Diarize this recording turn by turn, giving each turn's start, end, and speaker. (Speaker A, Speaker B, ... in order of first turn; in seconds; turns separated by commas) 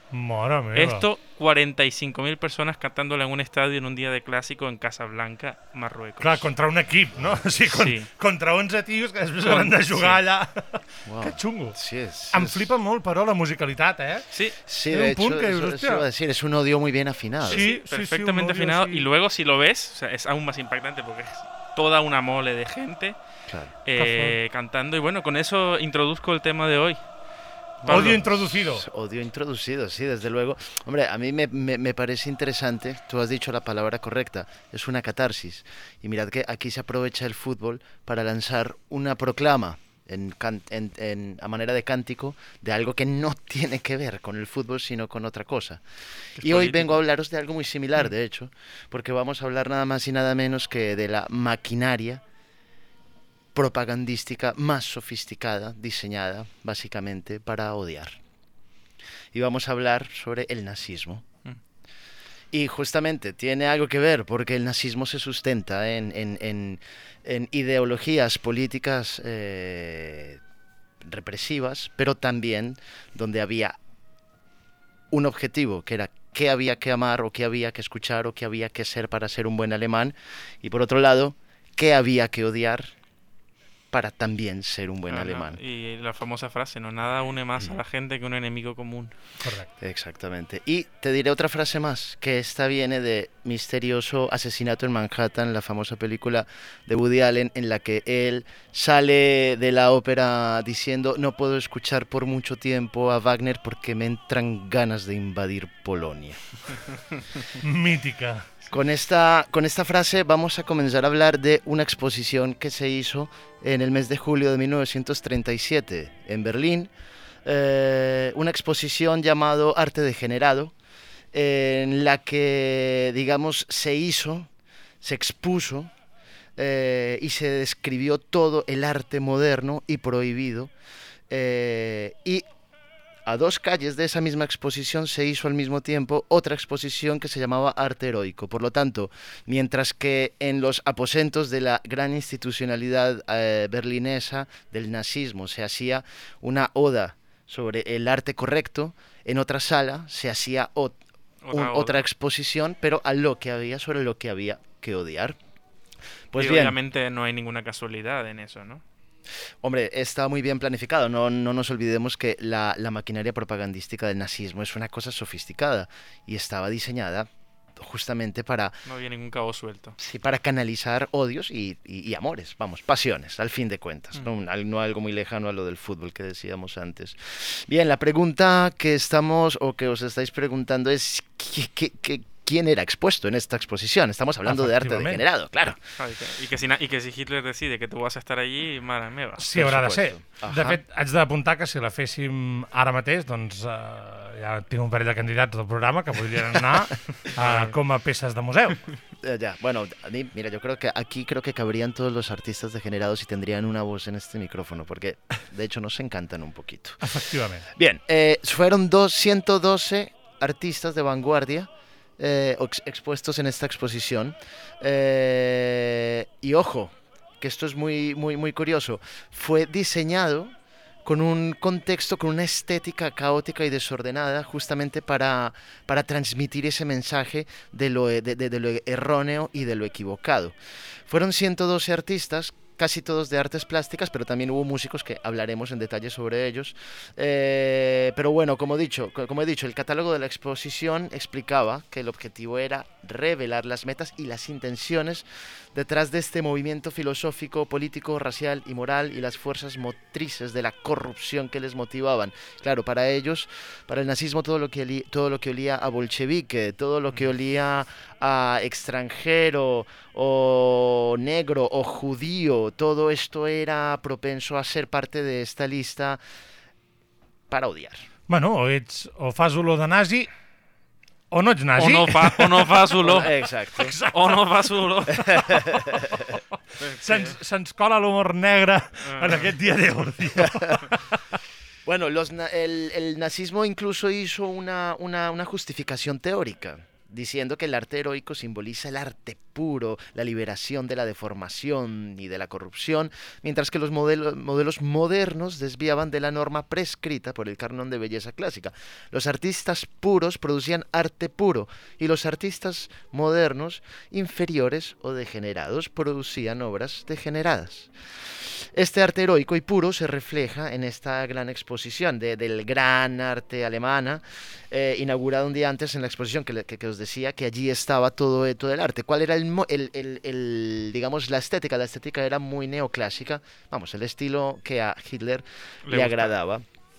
Speaker A: 0.1-1.1, Speaker B: 0.7-6.5, Speaker A: 6.2-11.8, Speaker B: 7.7-8.1, Speaker B: 9.4-10.2, Speaker C: 11.1-12.7, Speaker A: 12.3-14.3, Speaker C: 14.7-17.6, Speaker A: 14.9-16.0, Speaker A: 17.4-19.1, Speaker B: 17.5-23.2, Speaker B: 23.8-27.1, Speaker A: 24.0-24.4, Speaker B: 27.8-28.4, Speaker A: 27.9-28.9, Speaker C: 27.9-45.9, Speaker B: 46.4-47.0, Speaker C: 46.4-52.2, Speaker C: 53.5-58.2, Speaker C: 59.3-61.2, Speaker C: 62.5-70.4, Speaker C: 71.0-73.8, Speaker C: 75.1-82.9, Speaker C: 83.9-85.6, Speaker B: 85.1-89.1, Speaker A: 89.4-89.7, Speaker C: 89.8-106.6, Speaker A: 107.6-108.5, Speaker C: 108.7-116.9, Speaker C: 117.5-120.7, Speaker C: 121.3-124.5, Speaker C: 125.0-125.9, Speaker C: 126.6-130.7, Speaker C: 131.3-132.5, Speaker C: 133.3-151.0, Speaker B: 151.4-152.0, Speaker C: 151.5-155.4, Speaker C: 156.3-156.8, Speaker B: 156.4-158.8, Speaker C: 159.6-168.8, Speaker B: 168.9-170.0, Speaker C: 170.0-185.8, Speaker A: 184.4-185.2, Speaker B: 186.0-189.4, Speaker A: 189.4-198.9, Speaker C: 189.6-190.8, Speaker B: 197.3-197.8, Speaker C: 199.2-207.1, Speaker A: 207.0-207.7, Speaker C: 207.7-230.6, Speaker C: 231.1-266.2, Speaker C: 267.5-268.1, Speaker A: 268.3-270.3, Speaker A: 271.3-272.7, Speaker B: 271.8-273.3, Speaker C: 273.0-273.9, Speaker A: 273.8-274.4, Speaker B: 274.1-275.2, Speaker C: 275.3-275.9, Speaker A: 275.4-276.2, Speaker B: 276.8-277.4, Speaker A: 277.0-281.2, Speaker B: 279.0-279.5, Speaker C: 281.9-326.6, Speaker B: 325.9-326.3